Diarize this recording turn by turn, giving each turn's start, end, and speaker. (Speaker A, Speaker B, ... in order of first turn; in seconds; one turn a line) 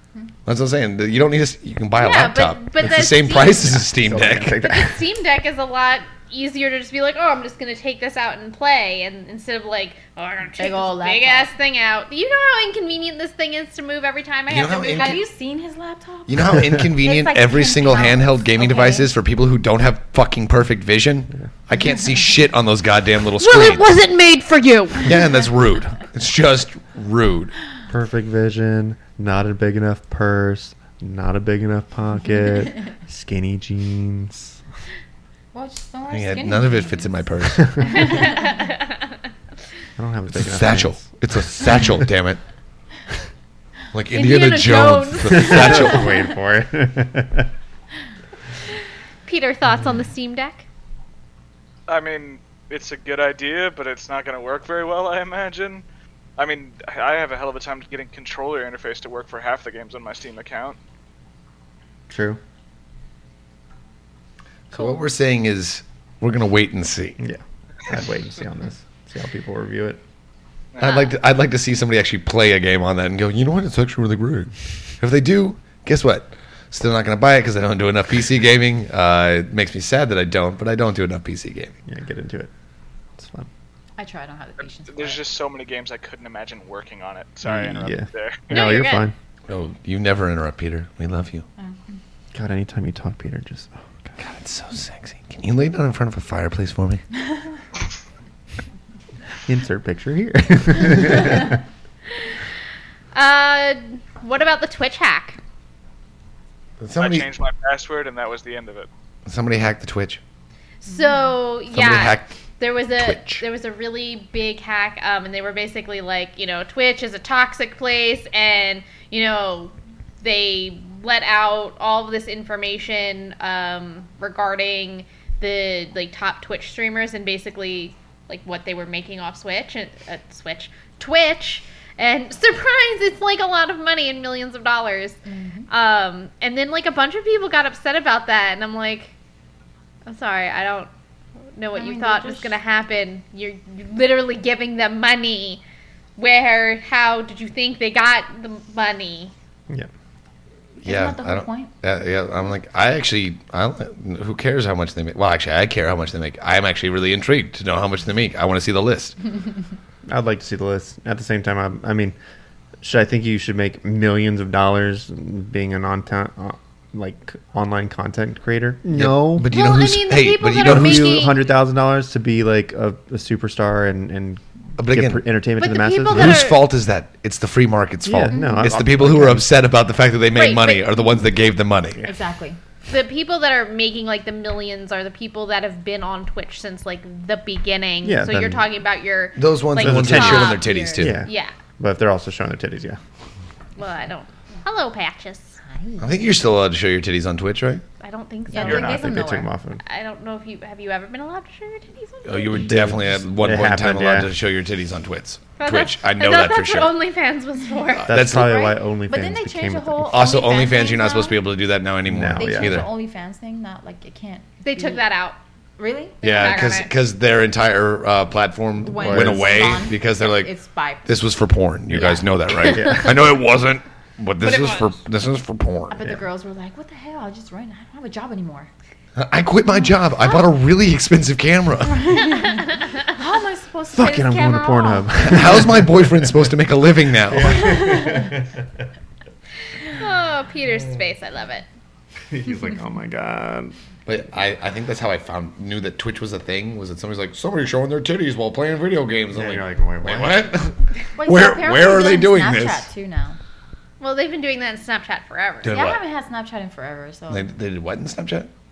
Speaker A: 0.5-4.8
Speaker B: 2.0-3.9
Speaker C: 3.8-5.0
Speaker B: 4.6-15.2
Speaker D: 10.6-11.5
Speaker A: 14.5-15.2
Speaker D: 15.0-19.1
Speaker A: 16.3-23.9
Speaker B: 23.4-25.1
Speaker A: 25.0-27.5
Speaker C: 27.9-34.6
Speaker D: 35.5-37.2
Speaker A: 36.1-38.2
Speaker C: 40.0-41.2
Speaker A: 40.3-42.4
Speaker A: 43.9-46.1
Speaker B: 44.1-46.1
Speaker C: 45.3-47.5
Speaker B: 49.2-50.7
Speaker E: 51.9-55.8
Speaker E: 56.4-60.8
Speaker C: 62.1-62.4
Speaker A: 64.7-67.2
Speaker C: 67.2-70.0
Speaker E: 70.7-71.1
Speaker A: 70.8-81.7
Speaker C: 81.9-82.5
Speaker C: 83.2-83.5
Speaker D: 84.0-85.2
Speaker E: 84.9-88.5
Speaker C: 87.4-89.1
Speaker B: 88.5-89.1
Speaker A: 89.5-91.5
Speaker D: 91.6-92.0
Speaker C: 92.3-94.1
Speaker A: 94.2-97.0
Speaker C: 99.5-101.6
Speaker B: 103.1-105.4
Speaker A: 106.8-107.3
Speaker E: 107.0-108.9
Speaker A: 109.3-110.2
Speaker B: 110.8-135.2
Speaker A: 111.7-112.4
Speaker A: 113.0-113.5
Speaker D: 135.3-135.7
Speaker B: 135.7-139.1
Speaker B: 140.1-140.9
Speaker B: 141.6-145.6
Speaker D: 141.7-142.6
Speaker B: 146.2-149.3
Speaker D: 150.8-151.7
Speaker A: 150.8-159.2
Speaker C: 160.1-162.2
Speaker C: 162.8-169.5
Speaker A: 168.9-171.2
Speaker B: 169.5-171.4
Speaker C: 170.5-176.4
Speaker A: 174.8-175.2
Speaker B: 175.6-176.6
Speaker A: 176.1-182.1
Speaker C: 178.0-179.5
Speaker D: 178.3-178.8
Speaker B: 180.3-180.9
Speaker D: 182.0-182.6
Speaker B: 182.9-191.5
Speaker C: 188.0-188.7
Speaker A: 189.4-191.2
Speaker C: 189.8-193.0
Speaker D: 190.4-191.1
Speaker B: 193.8-195.6
Speaker A: 196.0-197.8
Speaker B: 198.0-199.0
Speaker D: 198.5-199.5
Speaker C: 198.6-199.8
Speaker B: 199.8-202.2
Speaker D: 202.2-202.7
Speaker A: 202.2-206.9
Speaker C: 202.7-204.3
Speaker B: 205.6-208.1
Speaker A: 207.9-208.7
Speaker C: 208.1-210.2
Speaker D: 208.4-211.4
Speaker A: 210.1-212.9
Speaker C: 212.1-212.9
Speaker D: 212.4-215.0
Speaker B: 214.6-215.4
Speaker D: 215.8-216.6
Speaker B: 216.2-216.9
Speaker A: 216.2-220.5
Speaker D: 218.8-221.2
Speaker C: 219.0-219.6
Speaker A: 221.1-226.1
Speaker D: 221.9-222.3
Speaker C: 222.7-223.3
Speaker B: 224.4-224.9
Speaker D: 225.9-228.7
Speaker A: 229.2-232.2
Speaker D: 232.0-235.4
Speaker C: 233.9-236.4
Speaker A: 235.2-237.8
Speaker C: 237.3-238.6
Speaker D: 237.6-238.3
Speaker B: 239.9-241.7
Speaker C: 242.3-243.8
Speaker A: 244.1-252.9
Speaker C: 249.3-250.4
Speaker D: 251.2-253.4
Speaker B: 254.0-255.9
Speaker A: 255.6-256.0
Speaker D: 255.7-257.5
Speaker A: 257.3-258.5